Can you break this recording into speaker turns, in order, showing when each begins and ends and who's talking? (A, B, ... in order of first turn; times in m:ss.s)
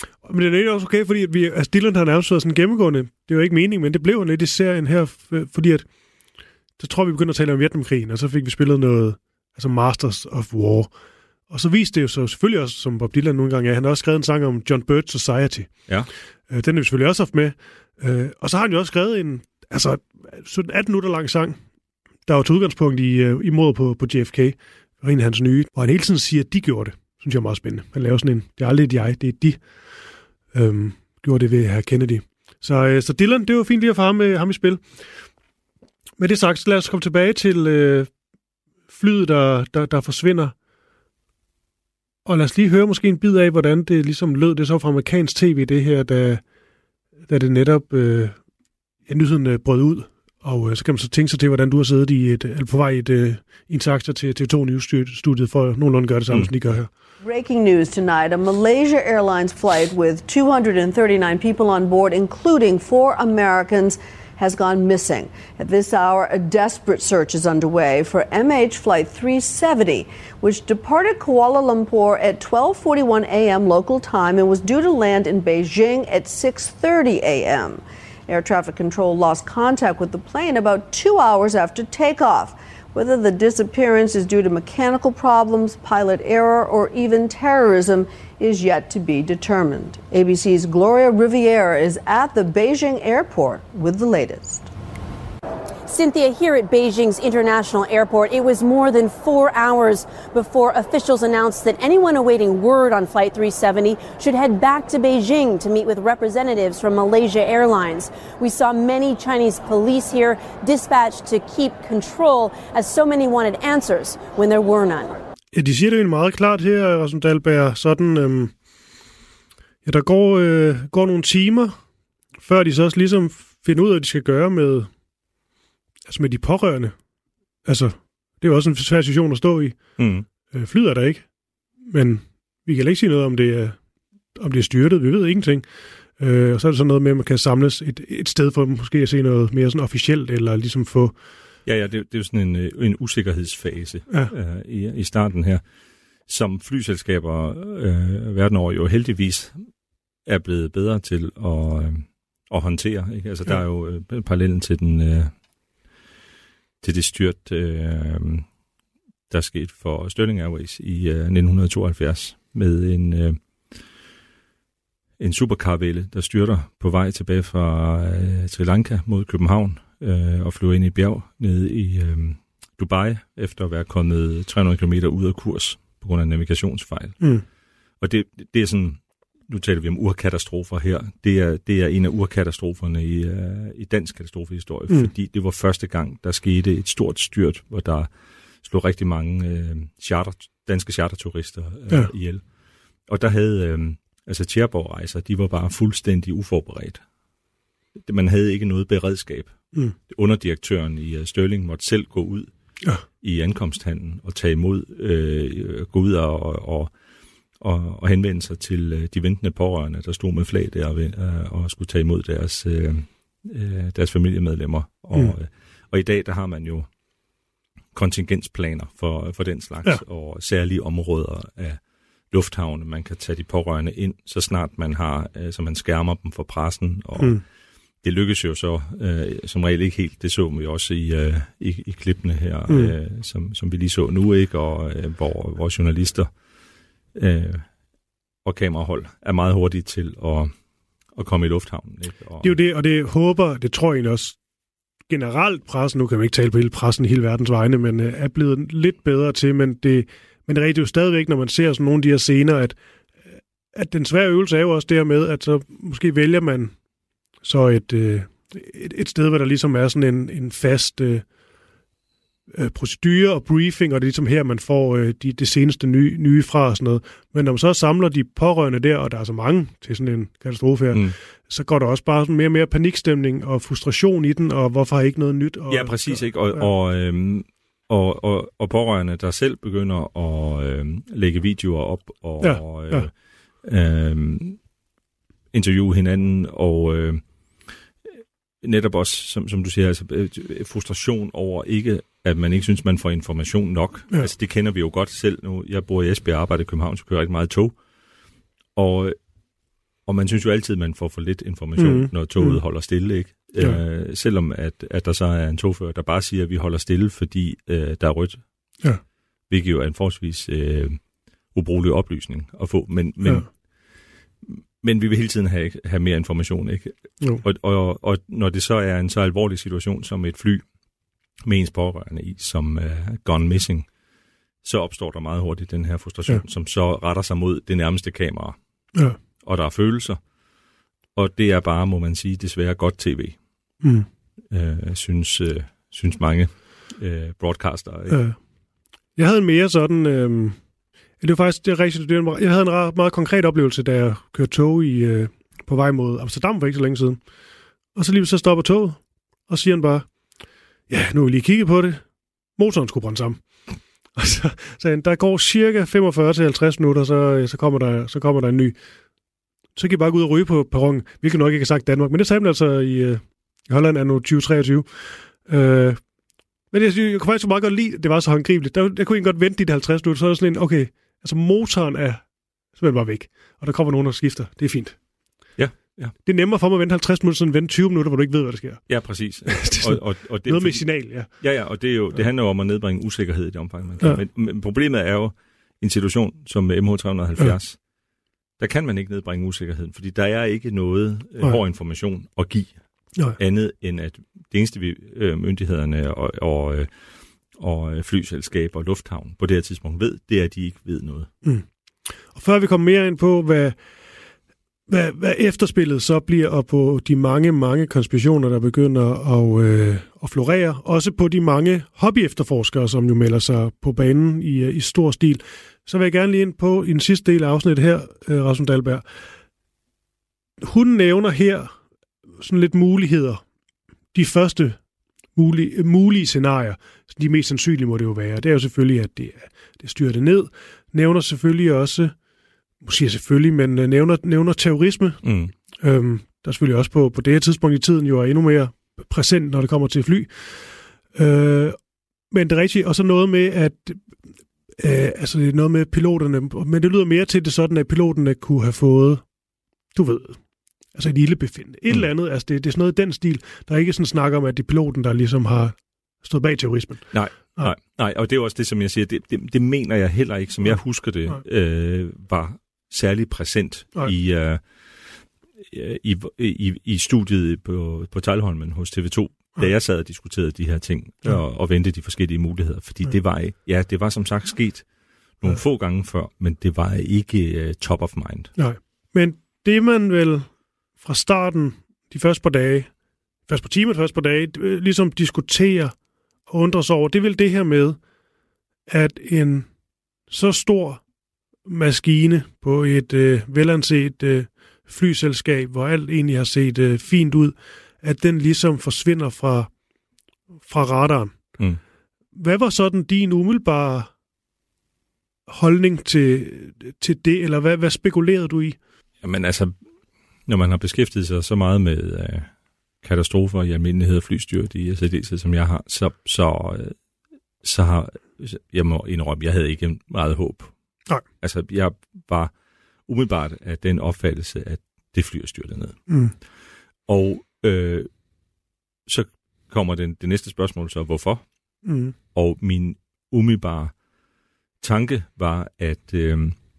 0:00.2-0:05.9 A
0:06.8-0:10.9 A
0:11.5-0:15.7 A
0:16.5-0:21.6 A
0:22.3-0:29.6 A
0:30.5-0:34.9 A
0:36.2-0:38.1 A
0:38.9-0:40.5 A
0:42.2-0:46.4 A
0:47.3-0:48.4 A
0:49.1-0:56.9 A
0:56.3-0:56.7 B
0:57.2-1:34.7 C
1:35.9-1:55.2 D
1:55.5-1:58.5 A
1:59.8-2:01.8 A
2:02.4-2:04.9 A
2:06.1-2:06.9 A
2:07.6-2:09.9 A
2:10.0-2:10.2 B
2:10.5-2:11.2 A
2:11.9-2:13.8 A
2:14.4-2:15.6 A
2:16.2-2:21.1 A
2:21.6-2:25.6 B
2:26.3-2:29.6 B
2:30.2-2:35.3 B
2:36.8-2:38.5 B
2:39.3-2:43.8 B
2:45.2-2:57.3 B
2:58.0-3:08.1 B
3:08.6-3:12.4 B
3:13.1-3:17.0 B
3:18.0-3:22.5 B
3:23.0-3:26.9 B
3:27.6-3:36.9 B
3:37.9-3:41.8 B
3:42.3-3:47.4 B
3:48.0-3:56.3 B
3:52.7-3:52.9 A
3:57.1-3:57.7 B
3:58.4-4:00.5 B
4:01.1-4:02.6 B
4:02.4-4:04.4 A
4:05.1-4:12.8 A
4:13.7-4:16.7 A
4:17.4-4:21.2 A
4:22.5-4:36.7 A
4:30.9-4:31.2 B
4:35.7-4:44.6 B
4:42.4-4:43.1 A
4:45.5-4:47.7 B
4:48.6-4:57.8 B
4:58.7-4:59.2 B
5:00.0-5:08.4 B
5:01.8-5:02.6 A
5:09.5-5:13.6 B
5:14.4-5:20.6 B
5:21.4-5:23.9 B
5:24.6-5:28.6 B
5:29.4-5:30.2 B
5:31.1-5:33.4 B
5:33.8-5:34.1 A
5:34.5-5:38.2 B
5:38.1-5:38.4 A
5:39.2-5:40.6 A
5:41.2-5:47.2 A
5:47.9-5:50.1 A
5:50.9-5:52.0 A
5:52.6-5:53.4 A
5:54.2-5:58.8 A
5:59.8-6:04.9 A
6:05.4-6:06.0 A
6:06.7-6:12.2 A
6:12.7-6:15.0 A
6:15.6-6:16.1 B
6:16.2-6:18.9 A
6:18.9-6:27.8 B
6:19.4-6:21.3 A
6:28.6-6:32.7 B
6:33.3-6:36.9 B
6:37.5-6:41.3 B
6:42.3-6:43.8 A
6:44.9-6:59.0 A
7:00.6-7:01.7 A
7:02.4-7:03.4 A
7:04.1-7:04.8 A
7:05.3-7:12.1 A
7:12.8-7:15.2 A
7:15.2-7:15.5 B
7:15.8-7:20.6 A
7:21.1-7:21.8 A
7:22.3-7:24.2 A
7:24.8-7:29.2 A
7:29.9-7:30.4 A
7:30.9-7:37.7 A
7:37.1-7:54.8 B
7:55.4-7:58.5 B
7:58.6-8:00.5 A
8:01.0-8:02.9 A
8:03.5-8:05.9 A
8:06.5-8:08.0 A
8:08.9-8:09.7 A
8:10.3-8:11.0 A
8:11.6-8:19.7 A
8:20.6-8:21.5 A
8:22.3-8:24.1 A
8:25.5-8:28.8 A
8:29.2-8:29.8 B
8:30.5-8:32.5 B
8:33.0-8:36.9 B
8:37.6-8:40.7 B
8:41.4-8:42.5 B
8:43.1-8:46.1 B
8:46.1-8:46.3 A
8:47.1-8:48.1 B
8:49.0-8:51.4 B
8:51.8-8:52.1 A
8:52.3-8:53.9 B
8:54.8-8:56.6 B